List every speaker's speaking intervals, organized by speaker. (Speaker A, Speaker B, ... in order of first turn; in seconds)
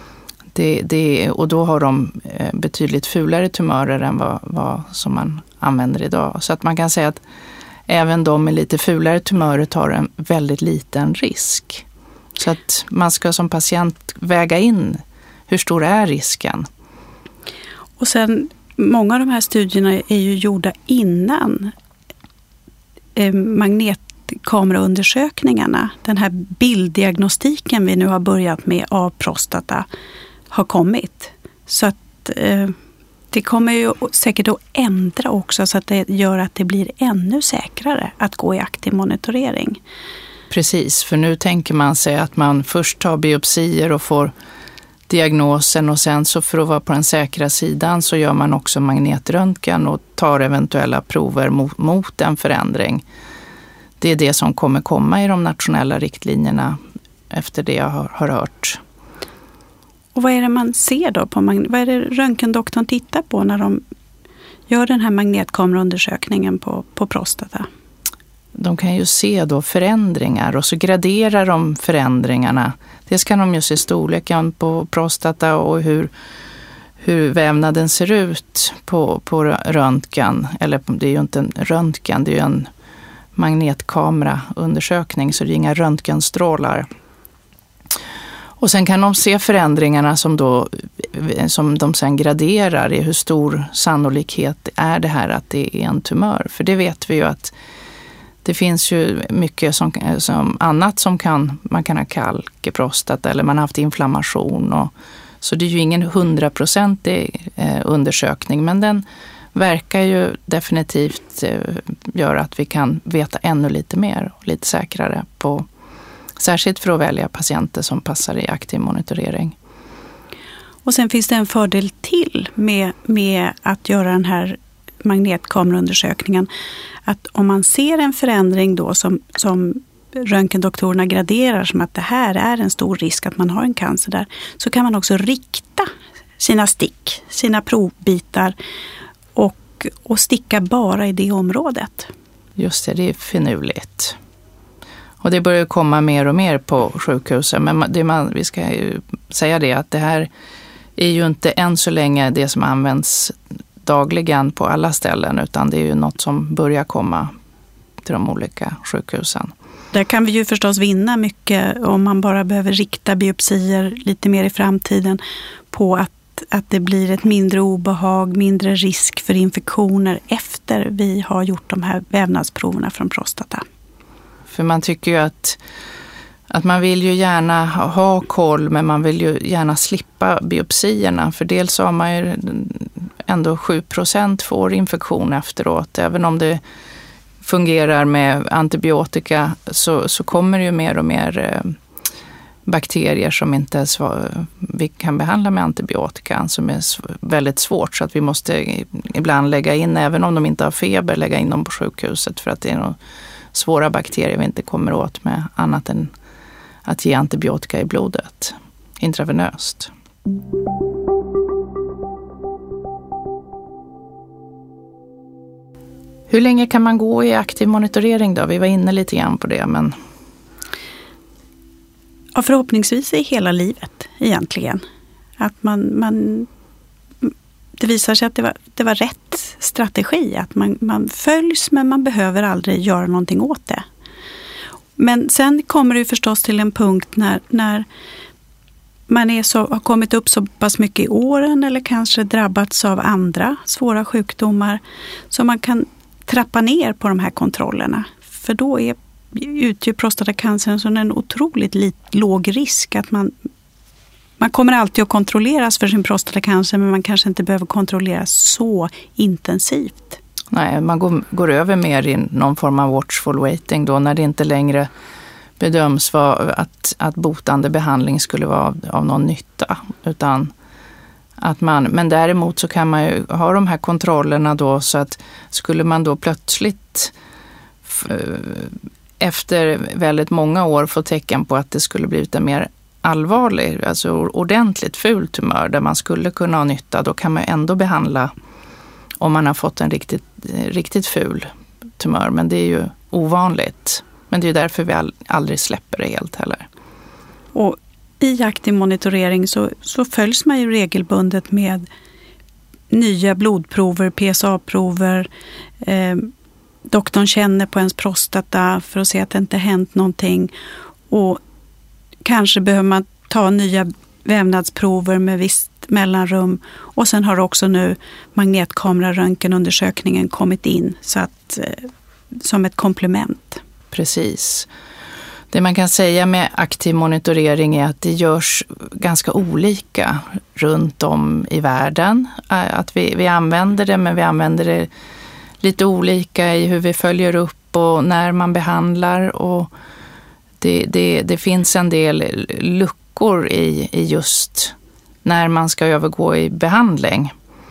Speaker A: 0.5-7.2, 7.9-11.8, 12.4-16.7, 40.5-44.3, 45.1-53.0, 54.0-56.8, 57.3-58.8, 68.5-76.1, 77.0-82.7, 83.3-86.9, 88.6-97.5, 98.4-115.7, 116.4-119.5, 142.6-144.2, 145.2-150.3, 151.0-157.3, 158.0-159.5, 174.5-175.6, 176.5-186.6, 187.4-191.8, 192.7-203.0, 203.5-206.1, 206.8-209.9, 216.3-219.9, 260.5-264.9, 265.6-270.5, 271.4-277.1, 277.9-288.3, 289.2-296.7, 323.9-324.7, 325.5-334.9, 335.6-339.7, 340.6-347.3
Speaker B: 18.0-21.7, 23.1-29.9, 30.5-32.8, 33.3-39.8, 60.1-63.8, 64.7-67.7, 120.8-126.5, 127.0-138.5, 139.3-142.1, 159.9-165.2, 165.7-173.6, 222.3-224.8, 225.4-226.5, 227.2-233.8, 235.0-237.9, 239.1-253.3, 254.4-260.2, 297.5-301.8, 302.9-305.3, 305.8-306.3, 306.9-310.5, 311.1-311.4, 312.2-323.6